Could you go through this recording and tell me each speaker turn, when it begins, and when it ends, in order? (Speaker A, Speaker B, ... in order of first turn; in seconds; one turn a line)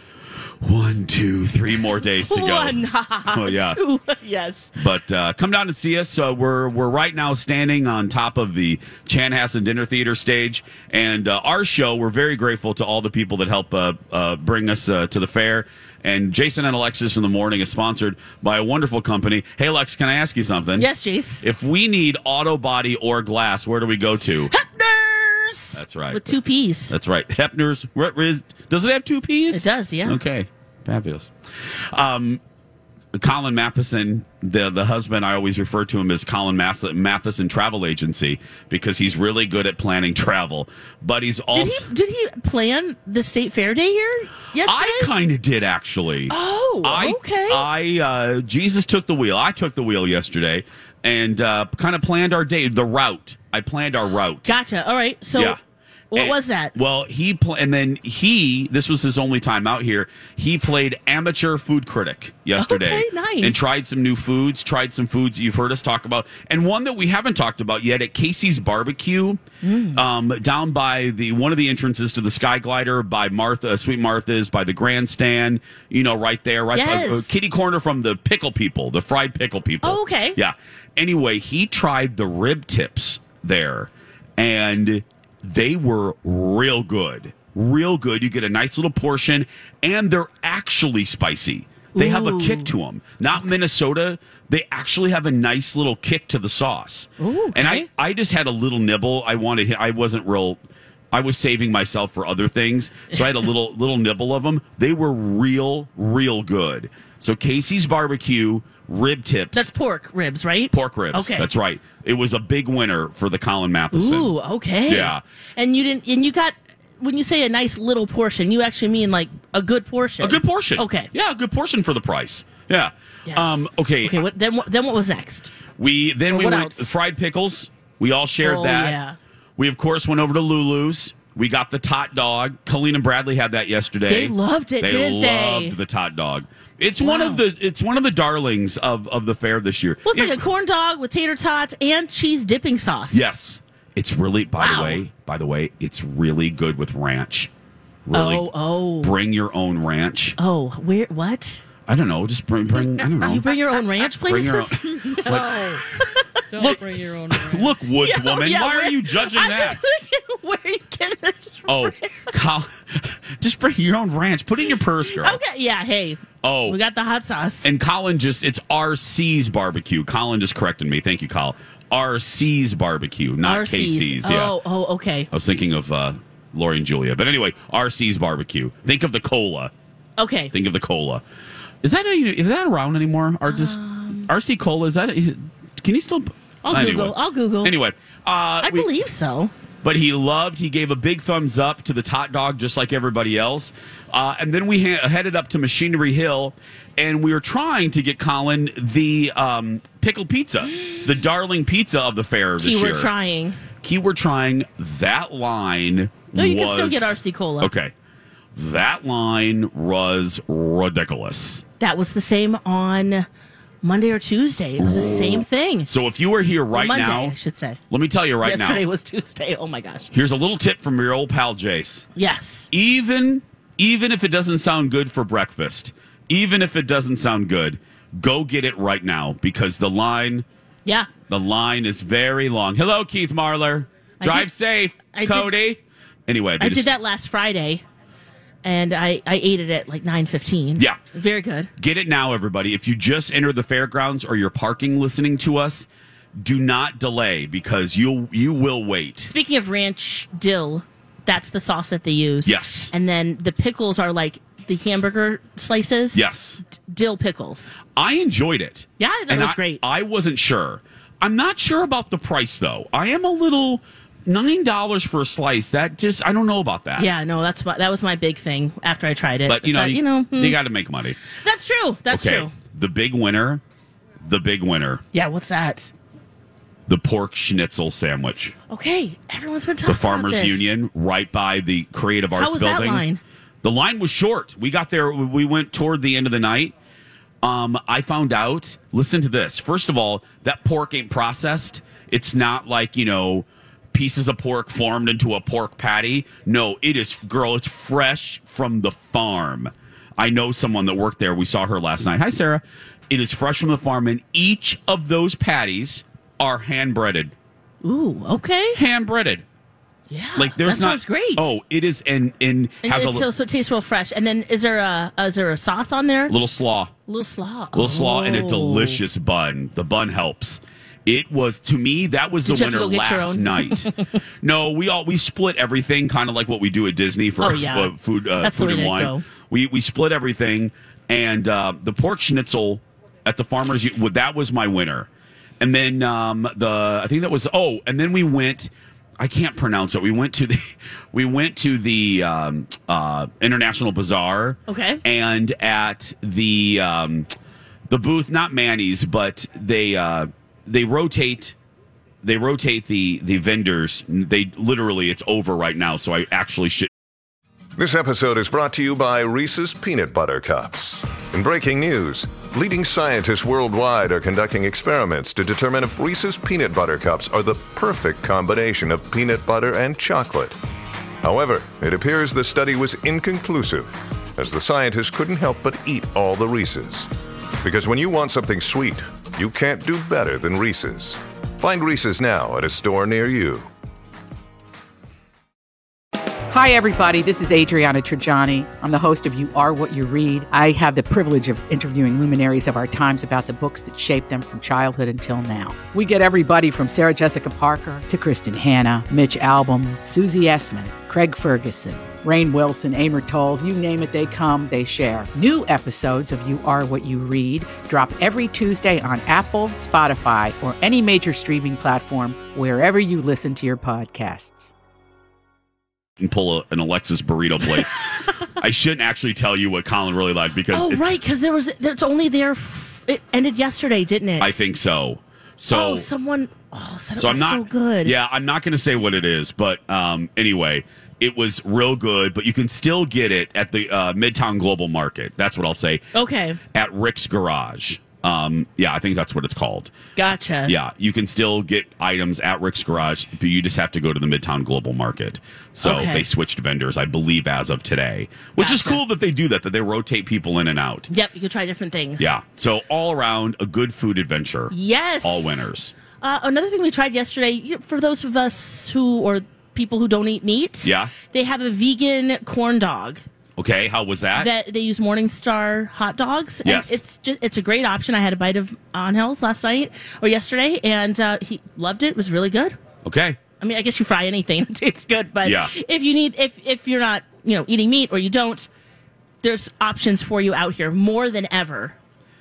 Speaker A: 0.6-3.8
Speaker B: 2.3-4.7
Speaker A: 4.8-20.9
Speaker B: 20.8-21.4
Speaker A: 21.4-24.5
Speaker B: 24.5-26.9
Speaker A: 25.7-26.4
Speaker A: 26.9-31.3
Speaker B: 29.5-30.2
Speaker A: 31.9-32.4
Speaker A: 33.1-41.9
Speaker B: 41.5-45.1
Speaker A: 44.6-54.5
Speaker B: 46.3-47.6
Speaker B: 54.5-55.6
Speaker B: 56.1-56.7
Speaker A: 56.1-69.4
Speaker B: 62.6-63.6
Speaker B: 69.6-70.0
Speaker A: 70.0-100.6
Speaker B: 76.7-77.3
Speaker B: 79.8-80.4
Speaker B: 92.0-92.7
Speaker B: 97.2-97.9
Speaker A: 101.1-109.7
Speaker B: 109.5-111.5
Speaker A: 110.7-114.3
Speaker B: 113.9-121.1
Speaker A: 114.9-115.2
Speaker A: 120.2-124.2
Speaker B: 123.3-125.5
Speaker A: 125.8-129.0
Speaker B: 126.3-126.9
Speaker B: 128.4-129.2
Speaker A: 129.6-140.4
Speaker B: 134.1-135.8
Speaker B: 137.0-137.4
Speaker B: 140.1-143.2
Speaker A: 143.1-147.5
Speaker B: 144.6-145.0
Speaker A: 148.1-150.4
Speaker B: 148.1-149.1
Speaker B: 150.4-151.6
Speaker A: 151.9-153.6
Speaker B: 153.2-155.3
Speaker A: 154.2-155.5
Speaker C: 155.1-155.8
Speaker C: 156.5-157.7
Speaker A: 156.6-156.8
Speaker A: 157.4-159.8
Speaker B: 158.0-162.3
Speaker A: 161.7-165.4
Speaker B: 165.1-167.7
Speaker A: 166.4-166.8
Speaker A: 167.6-174.6
Speaker B: 173.4-175.3
Speaker A: 175.3-179.7
Speaker B: 180.2-180.5
Speaker A: 180.5-181.2
Speaker A: 181.8-188.9
Speaker B: 183.5-184.3
Speaker B: 186.7-187.7
Speaker B: 188.6-189.5
Speaker A: 189.8-203.1
Speaker B: 202.6-203.6
Speaker A: 203.8-207.9
Speaker B: 206.3-207.7
Speaker A: 208.6-211.6
Speaker B: 211.8-213.3
Speaker B: 213.8-215.9
Speaker A: 214.8-217.3
Speaker B: 216.8-217.8
Speaker A: 217.9-218.8
Speaker B: 218.4-220.1
Speaker A: 220.1-222.1
Speaker B: 222.2-222.7
Speaker A: 222.7-230.4
Speaker A: 231.3-236.9
Speaker B: 234.2-234.5
Speaker B: 235.1-235.5
Speaker B: 236.6-237.8
Speaker B: 238.6-241.7
Speaker A: 241.8-245.9
Speaker A: 246.4-249.3
Speaker B: 249.2-257.8
Speaker A: 252.4-252.9
Speaker A: 256.1-256.6
Speaker A: 257.9-267.1
Speaker B: 259.0-259.8
Speaker B: 267.0-270.6
Speaker A: 269.5-271.2
Speaker B: 271.4-272.5
Speaker A: 272.1-273.6
Speaker A: 274.2-275.0
Speaker B: 275.1-275.9
Speaker A: 276.9-278.6
Speaker B: 278.7-280.7
Speaker A: 279.9-283.1
Speaker B: 282.4-283.2
Speaker A: 283.6-286.7
Speaker A: 287.4-307.3
Speaker B: 307.8-308.8
Speaker A: 308.8-309.4
Speaker B: 310.1-311.5
Speaker A: 310.4-313.2
Speaker B: 312.8-316.3
Speaker A: 316.3-316.9
Speaker B: 317.1-319.0
Speaker A: 317.7-323.9
Speaker B: 322.5-323.9
Speaker A: 324.4-335.1
Speaker B: 327.4-329.2
Speaker A: 335.6-347.3
Speaker B: 344.7-345.0
Speaker A: 347.9-351.5
Speaker A: 352.2-356.9
Speaker D: 357.8-370.6
Speaker D: 371.2-377.1
Speaker D: 377.6-383.7
Speaker E: 386.5-414.7
Speaker A: 416.2-418.0
Speaker A: 418.6-421.1
Speaker B: 420.7-424.6
Speaker A: 424.4-426.1
Speaker B: 425.7-428.1
Speaker A: 427.2-436.1
Speaker B: 436.1-436.6
Speaker A: 436.7-439.9
Speaker B: 440.2-440.7
Speaker A: 440.7-451.1
Speaker B: 445.8-446.3
Speaker B: 448.6-449.0
Speaker B: 451.1-452.3
Speaker A: 452.2-455.9
Speaker B: 454.7-455.7
Speaker B: 456.2-463.2
Speaker A: 460.8-461.1
Speaker A: 463.6-464.5
Speaker B: 464.4-472.8
Speaker A: 466.6-467.0
Speaker A: 473.1-473.4
Speaker B: 473.6-478.7
Speaker A: 475.4-475.7
Speaker B: 479.4-481.9